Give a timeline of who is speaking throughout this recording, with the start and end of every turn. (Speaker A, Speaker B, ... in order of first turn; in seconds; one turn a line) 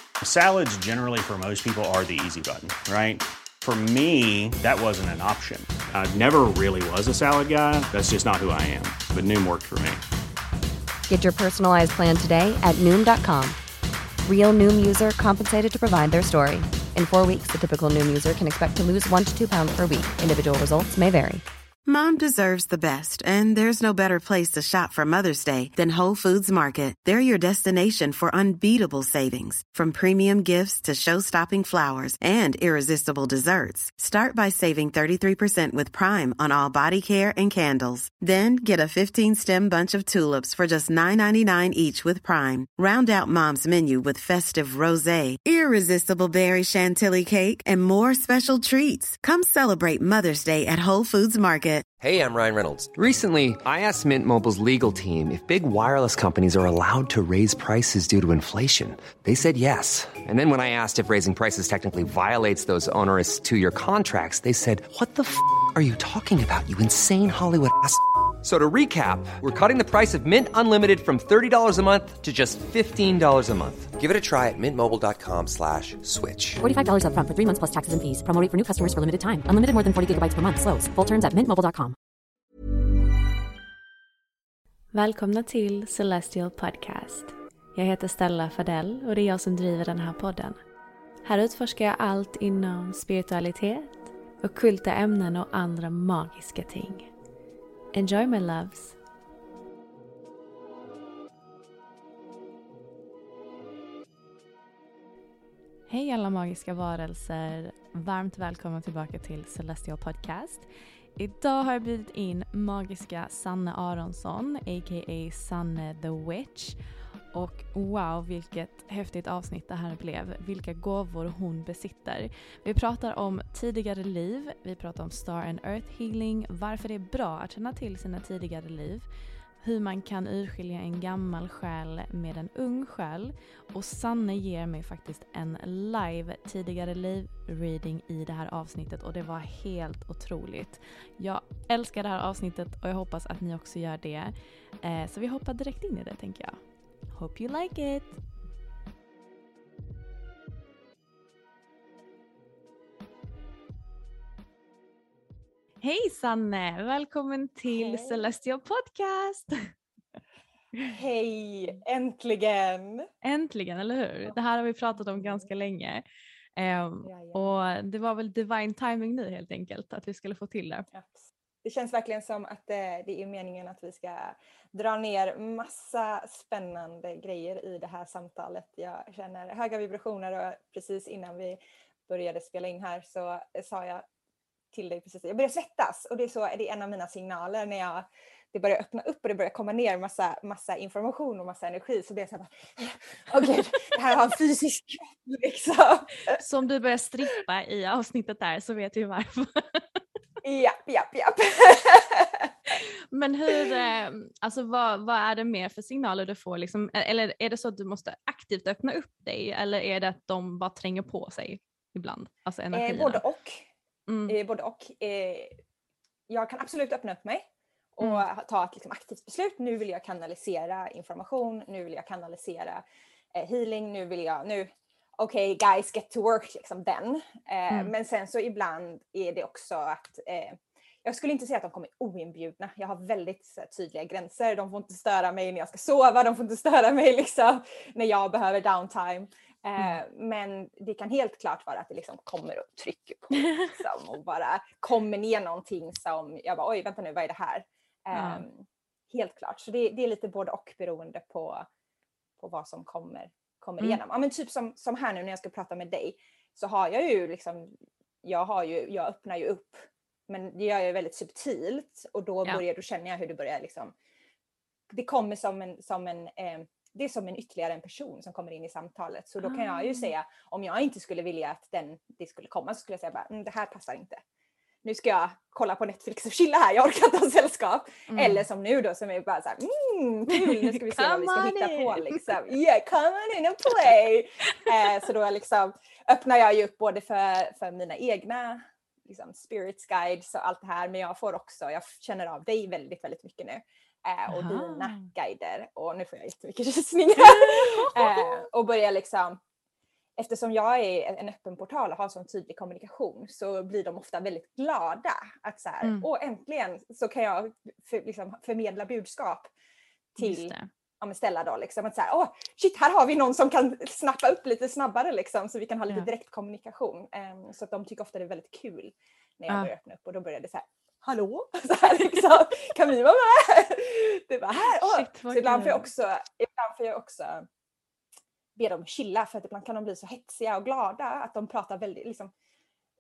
Speaker A: 0.2-10.0
Speaker B: 11.1-13.6
Speaker B: 14.2-21.4
Speaker C: 21.9-51.8
Speaker D: 52.0-76.6
Speaker E: 76.6-81.9
Speaker F: 84.9-90.6
Speaker F: 91.2-97.1
Speaker F: 97.9-99.0
Speaker F: 105.9-129.1
Speaker F: 129.6-148.2
Speaker F: 155.8-159.7
Speaker G: 157.7-158.3
Speaker G: 160.9-163.1
Speaker F: 163.2-166.0
Speaker G: 165.1-165.5
Speaker F: 166.6-170.9
Speaker G: 167.1-167.5
Speaker G: 170.9-184.1
Speaker G: 184.7-196.4
Speaker F: 196.3-200.0
Speaker G: 200.4-202.5
Speaker F: 203.1-213.2
Speaker G: 212.7-213.7
Speaker F: 214.1-214.4
Speaker G: 214.3-215.6
Speaker G: 216.3-222.8
Speaker G: 223.3-251.7
Speaker F: 248.1-248.4
Speaker G: 252.4-263.9
Speaker G: 264.9-274.2
Speaker F: 269.4-270.1
Speaker G: 274.8-299.4
Speaker F: 278.1-278.4
Speaker F: 280.4-282.2
Speaker F: 294.3-295.1
Speaker F: 297.2-298.4
Speaker G: 300.2-309.5
Speaker F: 305.8-306.1
Speaker G: 310.1-327.5
Speaker F: 310.2-310.7
Speaker F: 324.7-325.9
Speaker G: 328.6-332.3